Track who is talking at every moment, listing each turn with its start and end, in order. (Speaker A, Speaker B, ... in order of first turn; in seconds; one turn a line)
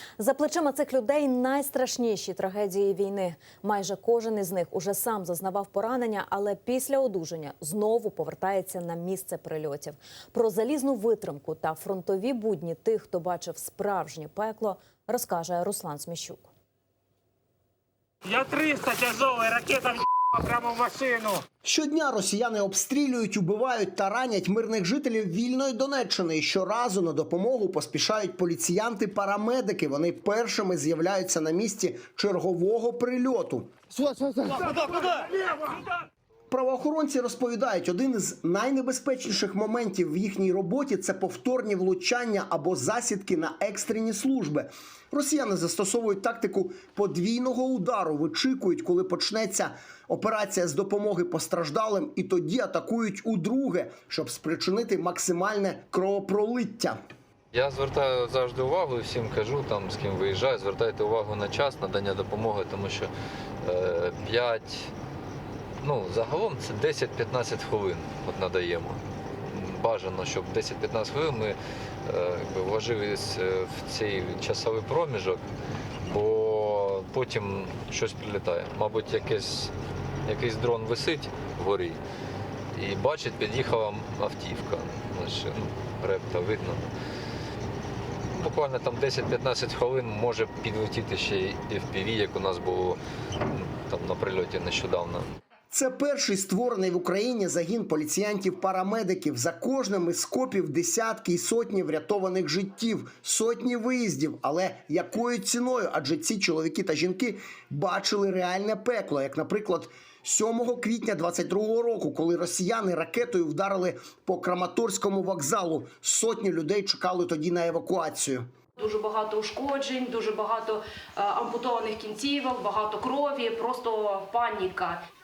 Speaker A: 0.2-16.5
Speaker B: 18.2-21.4
Speaker C: 21.6-33.7
Speaker C: 36.5-57.0
Speaker D: 57.5-63.1
Speaker D: 63.6-64.9
Speaker D: 65.8-75.4
Speaker D: 76.1-79.7
Speaker D: 80.3-82.0
Speaker D: 82.8-86.9
Speaker D: 88.3-95.3
Speaker C: 95.7-118.5
Speaker E: 118.8-125.0